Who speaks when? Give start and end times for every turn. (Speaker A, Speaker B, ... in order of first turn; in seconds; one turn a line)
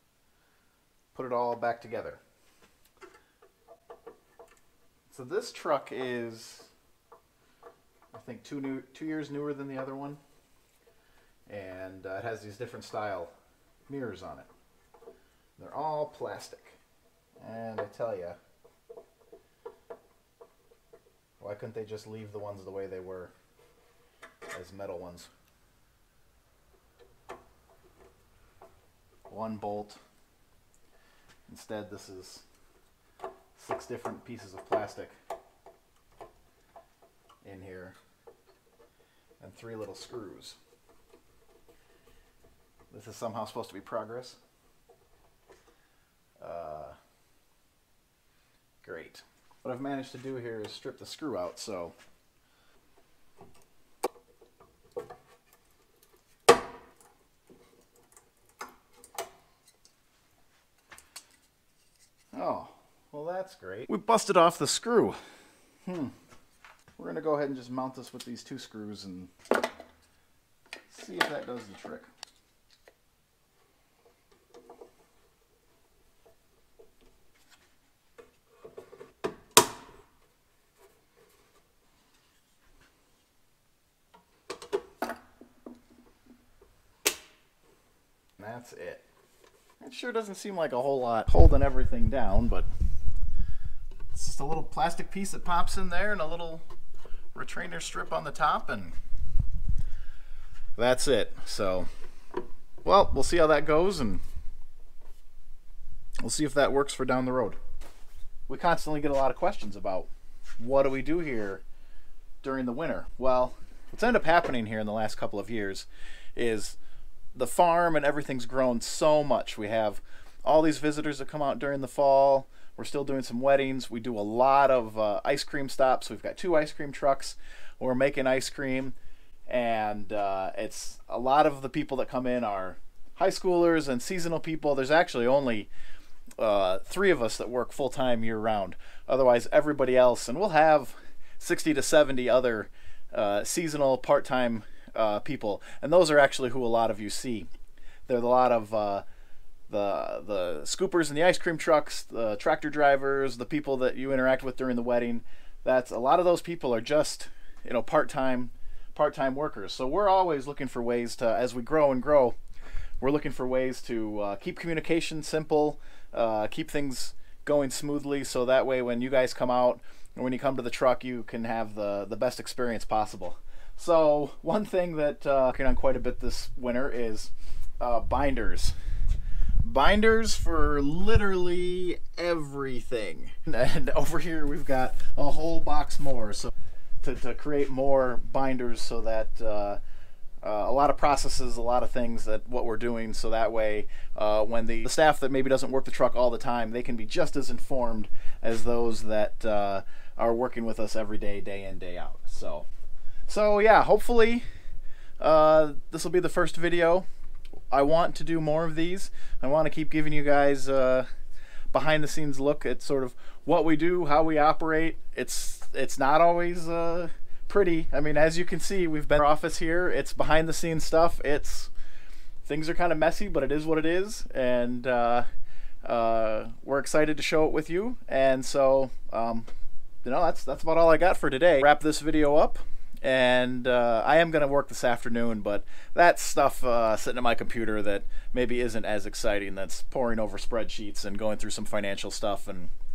Speaker A: 1.1-2.2
Speaker A: 5.1-6.7
Speaker A: 8.1-10.2
Speaker A: 11.5-13.3
Speaker A: 13.9-14.5
Speaker A: 15.6-16.8
Speaker A: 17.4-18.4
Speaker A: 21.4-23.3
Speaker A: 24.5-25.3
Speaker A: 29.3-30.0
Speaker A: 31.5-32.4
Speaker A: 33.6-35.1
Speaker A: 37.4-38.0
Speaker A: 39.4-40.6
Speaker A: 42.9-44.4
Speaker A: 46.4-47.0
Speaker A: 48.8-52.0
Speaker A: 62.3-65.2
Speaker A: 65.9-66.1
Speaker A: 67.0-69.3
Speaker A: 70.9-72.1
Speaker A: 88.4-89.0
Speaker A: 89.8-92.7
Speaker A: 94.1-96.7
Speaker A: 97.3-99.0
Speaker A: 100.8-101.9
Speaker A: 102.8-104.2
Speaker A: 106.2-107.6
Speaker A: 108.5-111.6
Speaker A: 112.4-116.8
Speaker A: 117.3-128.9
Speaker A: 129.5-135.7
Speaker A: 136.4-147.5
Speaker A: 148.1-149.0
Speaker A: 149.7-162.4
Speaker A: 163.0-178.8
Speaker A: 179.6-189.8
Speaker A: 190.4-202.7
Speaker A: 203.3-204.4
Speaker A: 205.2-207.1
Speaker A: 207.7-211.1
Speaker A: 211.7-221.7
Speaker A: 222.4-225.3
Speaker A: 225.8-229.5
Speaker A: 230.0-242.7